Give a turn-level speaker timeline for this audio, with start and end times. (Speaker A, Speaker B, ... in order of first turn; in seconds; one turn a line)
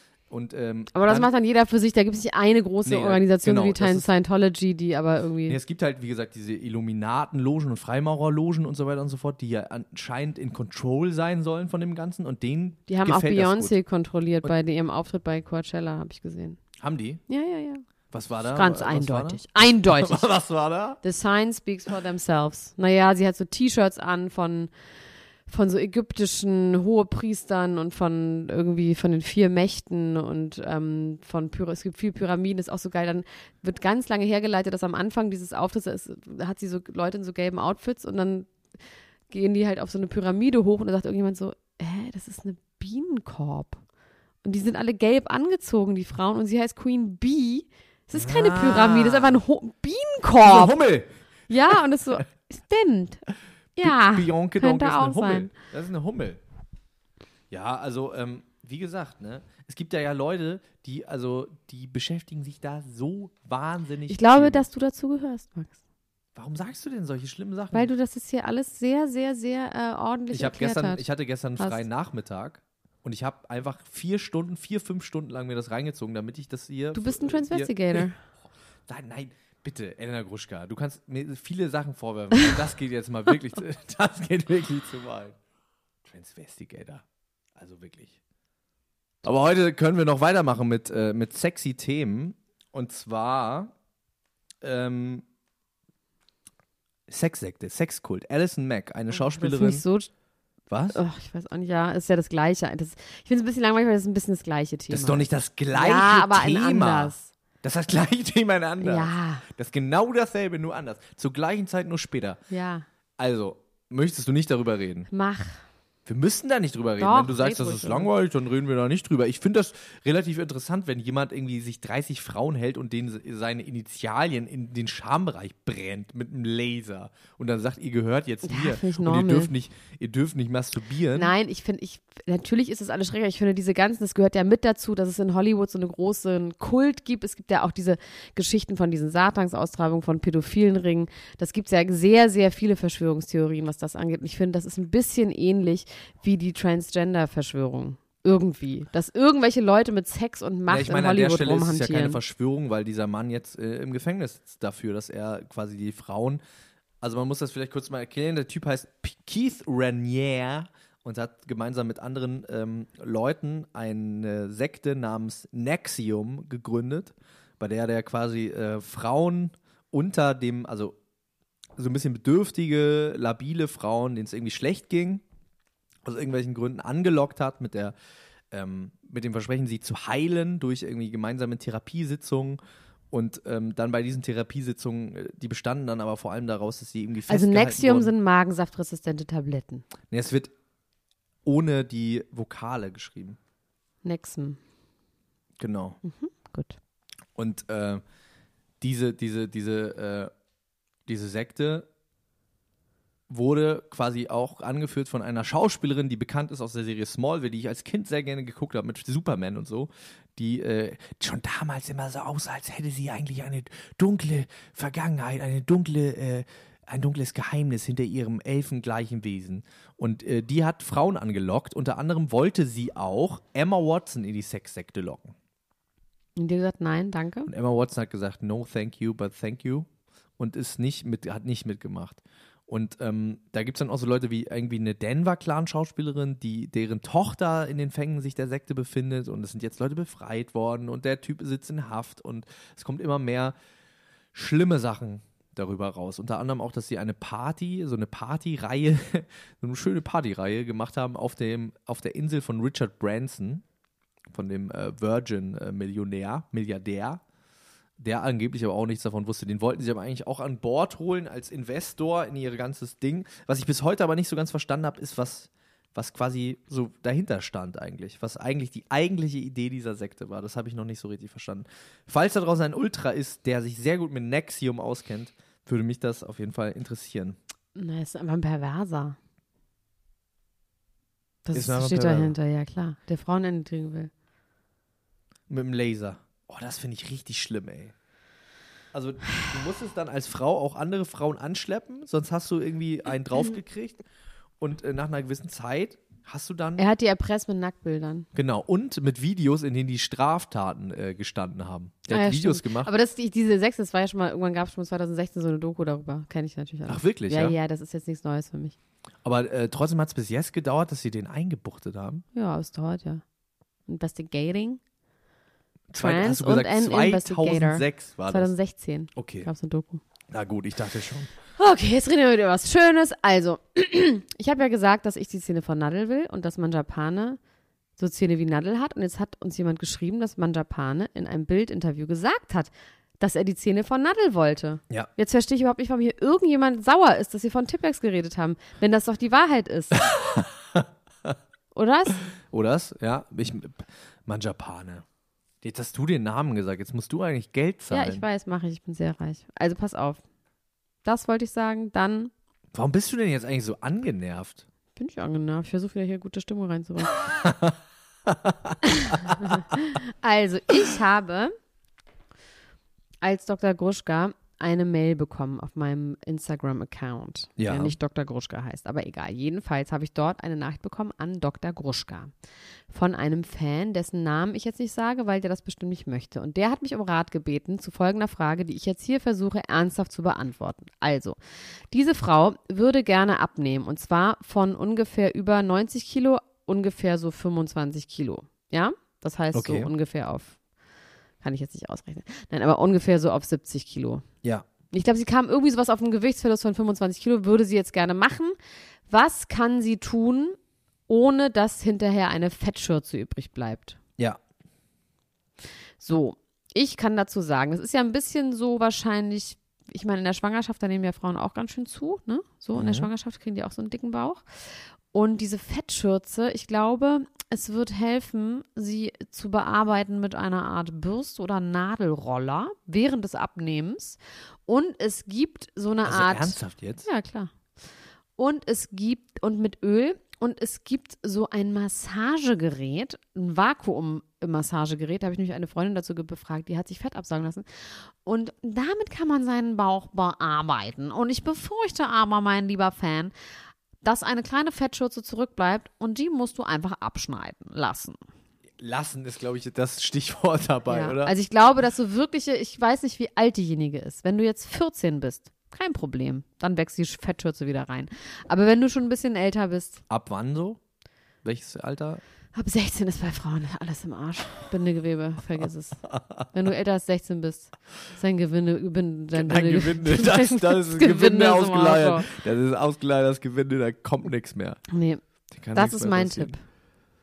Speaker A: 0.3-1.3
Speaker B: 0.9-5.6
Speaker A: 2.8-4.1
Speaker A: 5.5-13.8
Speaker B: 12.9-16.6
Speaker A: 16.8-17.2
Speaker B: 17.3-17.8
Speaker A: 18.1-21.0
Speaker B: 18.5-20.2
Speaker B: 21.0-24.7
Speaker B: 25.5-38.5
Speaker B: 39.3-43.8
Speaker B: 44.4-50.8
Speaker A: 48.1-49.4
Speaker A: 50.4-51.1
Speaker B: 51.5-53.2
Speaker B: 53.8-55.5
Speaker A: 53.8-56.4
Speaker A: 57.5-64.7
Speaker B: 64.1-65.8
Speaker A: 66.3-67.9
Speaker B: 67.7-71.0
Speaker A: 70.3-78.0
Speaker B: 76.9-78.2
Speaker A: 78.9-85.4
Speaker A: 86.0-87.0
Speaker A: 87.5-88.2
Speaker A: 89.2-93.7
Speaker A: 94.6-95.2
Speaker A: 97.1-99.8
Speaker B: 99.1-100.1
Speaker A: 100.7-101.0
Speaker B: 100.9-107.3
Speaker A: 104.9-112.4
Speaker B: 108.8-109.5
Speaker B: 112.5-112.8
Speaker A: 113.2-115.1
Speaker B: 115.1-115.6
Speaker A: 116.0-131.3
Speaker B: 117.0-118.1
Speaker B: 128.4-129.5
Speaker B: 131.1-152.2
Speaker A: 150.7-156.4
Speaker A: 157.0-170.9
Speaker A: 171.8-175.2
Speaker A: 176.0-177.9
Speaker A: 178.5-182.6
Speaker A: 183.1-188.1
Speaker B: 187.3-189.8
Speaker A: 190.1-190.5
Speaker A: 191.4-193.4
Speaker B: 194.0-194.6
Speaker A: 195.6-196.0
Speaker B: 196.0-196.8
Speaker A: 197.3-198.0
Speaker A: 198.8-200.3
Speaker A: 201.1-201.9
Speaker A: 203.3-225.3
Speaker B: 226.3-227.5
Speaker A: 227.5-243.5
Speaker A: 244.3-253.6
Speaker A: 254.3-257.2
Speaker A: 258.0-277.4
Speaker B: 277.7-279.2
Speaker B: 281.4-284.1
Speaker A: 281.5-282.3
Speaker A: 285.5-287.9
Speaker A: 288.9-294.0
Speaker A: 294.6-296.8
Speaker B: 296.8-298.3
Speaker A: 298.3-302.9
Speaker B: 302.1-308.8
Speaker A: 306.9-307.6
Speaker A: 309.2-312.2
Speaker B: 312.3-313.2
Speaker B: 313.9-314.8
Speaker A: 315.9-318.5
Speaker B: 315.9-320.0
Speaker A: 319.1-319.5
Speaker A: 320.3-321.3
Speaker B: 321.6-327.4
Speaker B: 328.0-340.0
Speaker A: 339.9-341.4
Speaker B: 341.7-342.2
Speaker A: 342.3-345.0
Speaker A: 345.6-348.2
Speaker B: 347.9-350.2
Speaker B: 351.0-352.3
Speaker A: 352.7-354.6
Speaker B: 354.9-357.1
Speaker A: 357.1-359.6
Speaker B: 358.9-361.5
Speaker B: 363.2-372.3
Speaker A: 367.6-367.9
Speaker B: 372.9-381.4
Speaker B: 381.9-390.6
Speaker A: 389.5-389.9
Speaker B: 391.4-394.2
Speaker B: 394.9-398.6
Speaker B: 399.1-400.6
Speaker B: 401.1-404.0
Speaker B: 406.0-414.4
Speaker A: 412.7-413.1
Speaker B: 415.1-427.5
Speaker A: 426.0-427.1
Speaker B: 428.4-443.3
Speaker B: 444.0-448.2
Speaker A: 448.8-451.3
Speaker B: 450.9-460.0
Speaker A: 460.1-460.8
Speaker A: 461.4-462.2
Speaker B: 462.5-472.3
Speaker A: 466.1-466.4
Speaker A: 469.3-474.8
Speaker B: 474.9-475.2
Speaker A: 475.5-476.5
Speaker B: 475.7-476.6